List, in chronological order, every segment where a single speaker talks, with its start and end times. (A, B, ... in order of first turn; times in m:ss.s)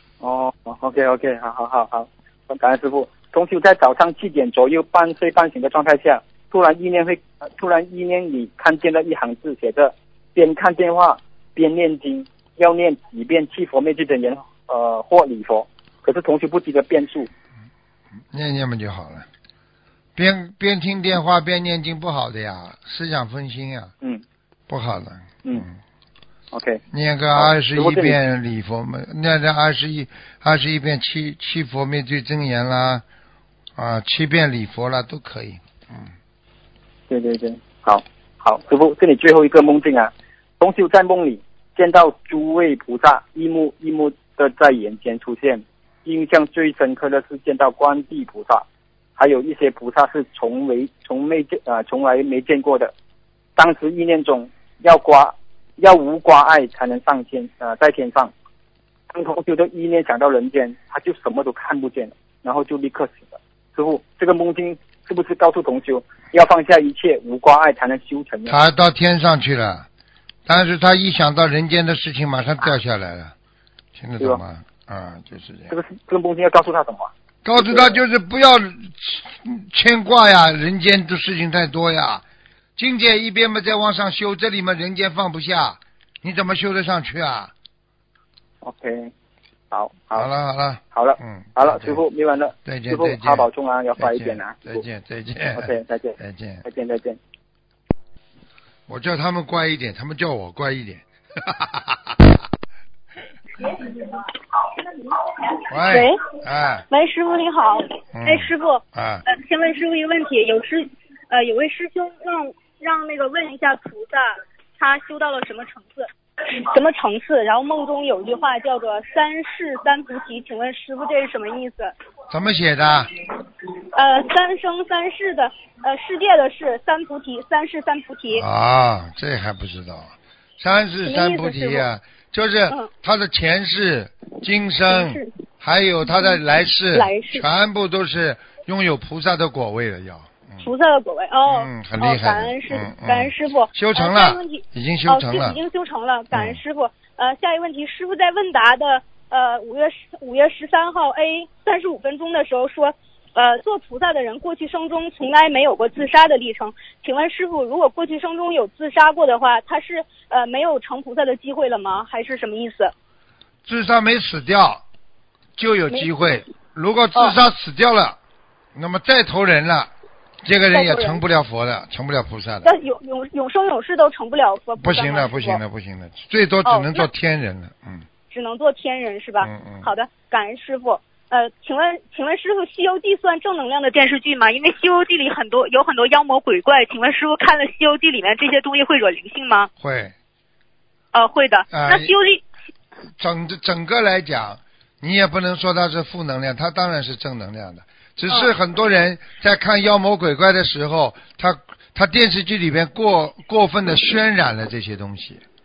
0:00.2-0:17.3 A
0:18.3-0:19.3 B
0:20.2-0:23.9 B
0:24.7-0:25.8 B
0:26.5-0:26.8 A
0:26.9-0:33.0 B
0:27.3-0:28.2 A
0:33.8-0:36.1 B
0:37.1-0:48.6 A
0:49.2-0:52.9 A
0:53.6-0:58.3 A
0:59.1-1:08.6 A
1:08.5-1:09.9 B
1:10.4-1:13.3 B
1:13.9-1:15.7 B
1:15.7-1:18.0 A
1:17.4-1:22.2 B
1:22.8-1:27.5 B
1:28.6-1:29.1 A
1:29.7-1:30.3 A
1:30.1-1:32.0 B
1:30.9-1:34.8 A
1:32.6-1:36.6 B
1:35.5-1:37.2 A
1:38.9-1:42.4 B
1:43.6-1:46.2 C
1:45.7-1:46.8 B
1:46.9-2:01.9 C
1:48.1-1:49.2 B
2:02.3-2:03.1 B
2:03.9-2:08.4 C
2:08.3-2:20.7 B
2:11.0-2:11.8 C
2:14.9-2:15.3 C
2:16.1-2:16.4 C
2:16.9-2:17.4 C
2:20.6-2:42.9 C
2:21.5-2:25.6 B
2:26.3-2:26.6 B
2:43.6-2:44.8 B
2:45.6-2:48.2 B
2:48.7-2:49.9 B
2:50.4-2:52.7 B
2:50.7-2:51.2 C
2:52.6-2:55.6 C
2:54.8-2:58.0 B
2:56.6-2:57.1 C
2:58.3-3:09.7 C
2:59.4-2:59.9 B
3:09.8-3:10.1 B
3:11.1-3:12.4 C
3:11.7-3:12.1 B
3:13.2-3:25.4 B